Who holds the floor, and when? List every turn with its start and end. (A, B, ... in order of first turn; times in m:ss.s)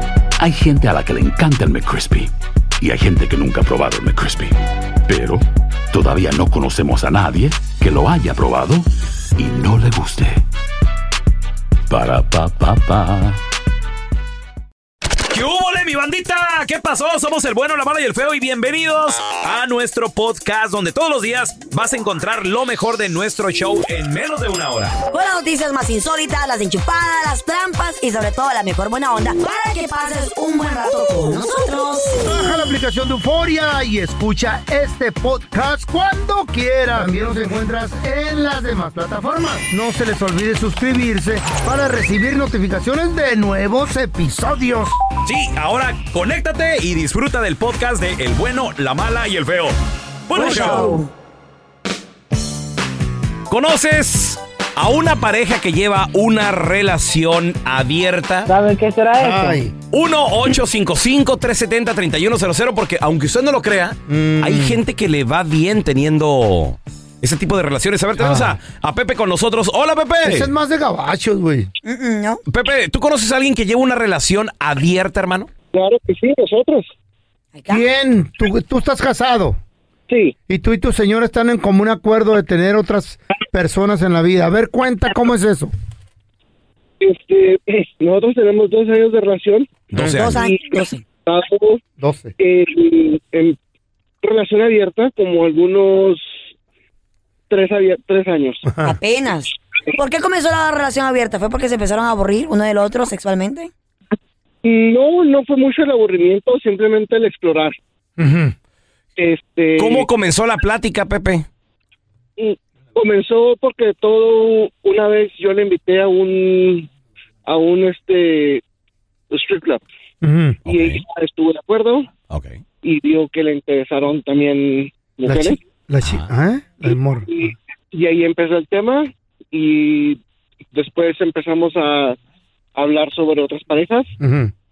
0:00.4-0:10.4 A
0:11.9-0:13.4 A
0:15.3-0:25.0 B
0:25.1-0:32.4 C
0:32.1-0:45.0 D
0:45.2-0:49.8 B
0:50.3-0:51.0 B
0:50.4-0:51.1 C
0:53.5-0:58.5 B
0:58.7-0:59.6 C
0:59.2-0:59.7 D
0:59.9-1:10.5 B
1:04.1-1:04.8 D
1:08.2-1:08.6 D
1:10.2-1:11.7 D
1:11.8-1:12.4 C
1:12.5-1:15.5 B
1:15.7-1:16.9 E
1:17.6-1:17.8 C
1:17.7-1:19.6 D
1:20.1-1:20.4 E
1:20.5-1:25.7 D
1:27.0-1:29.8 E
1:29.9-1:30.4 B
1:30.0-1:30.3 D
1:30.0-1:31.0 C
1:30.4-1:31.8 E
1:32.0-1:32.3 D
1:32.4-1:33.6 E
1:34.2-1:36.4 E
1:37.5-1:38.6 E
1:38.7-1:39.0 D
1:38.8-1:43.7 C
1:44.6-1:47.8 E
1:48.2-1:48.6 D
1:49.2-1:50.1 E
1:49.8-1:51.5 B
1:52.4-1:56.9 E
1:57.4-1:58.6 E
1:59.3-1:59.8 E
2:00.2-2:00.6 D
2:00.6-2:01.0 B
2:00.7-2:02.1 E
2:02.3-2:02.6 B
2:02.8-2:05.6 E
2:05.3-2:07.3 D
2:06.9-2:10.2 E
2:10.7-2:12.2 E
2:12.8-2:14.1 E
2:14.2-2:14.5 D